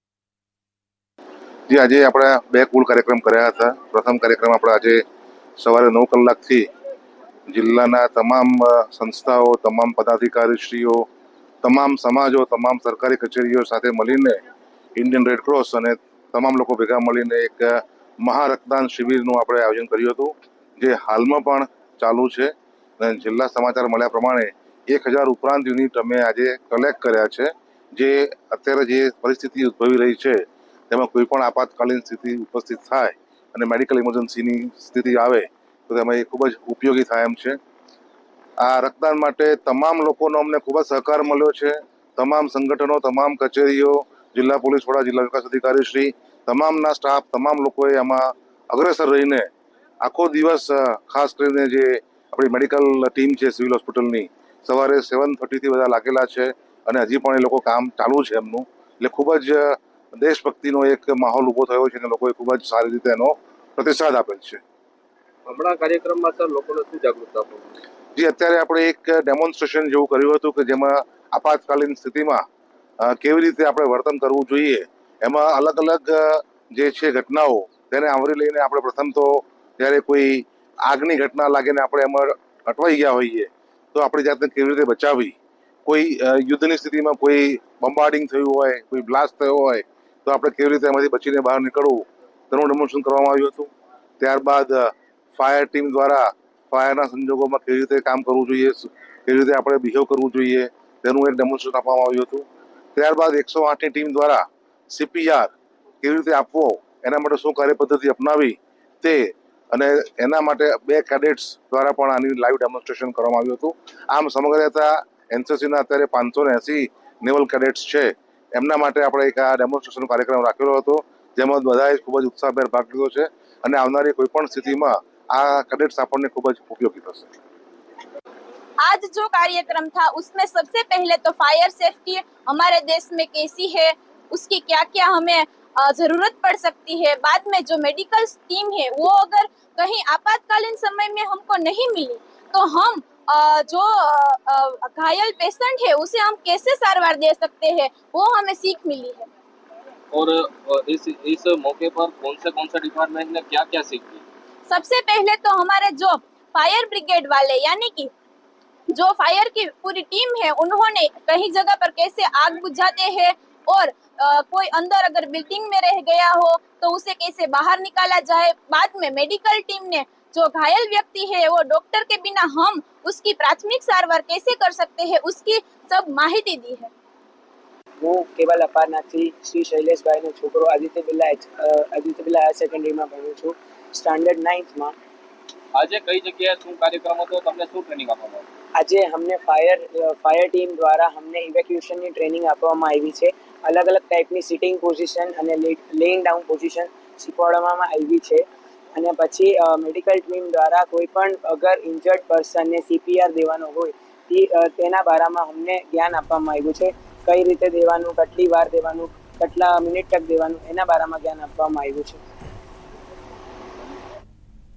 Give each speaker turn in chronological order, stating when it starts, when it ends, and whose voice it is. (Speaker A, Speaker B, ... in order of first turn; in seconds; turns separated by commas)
Speaker A: 1.7-5.0, Speaker A: 5.6-6.7, Speaker A: 7.5-11.1, Speaker A: 11.6-14.4, Speaker A: 14.9-37.6, Speaker A: 38.6-49.5, Speaker A: 50.0-64.6, Speaker B: 65.5-67.8, Speaker A: 68.1-72.4, Speaker A: 73.0-85.3, Speaker A: 85.8-127.3, Speaker C: 128.8-149.3, Speaker B: 150.1-154.2, Speaker C: 154.7-158.1, Speaker C: 158.9-176.9, Speaker D: 178.0-184.9, Speaker B: 185.7-188.4, Speaker D: 188.8-198.4, Speaker D: 198.9-212.2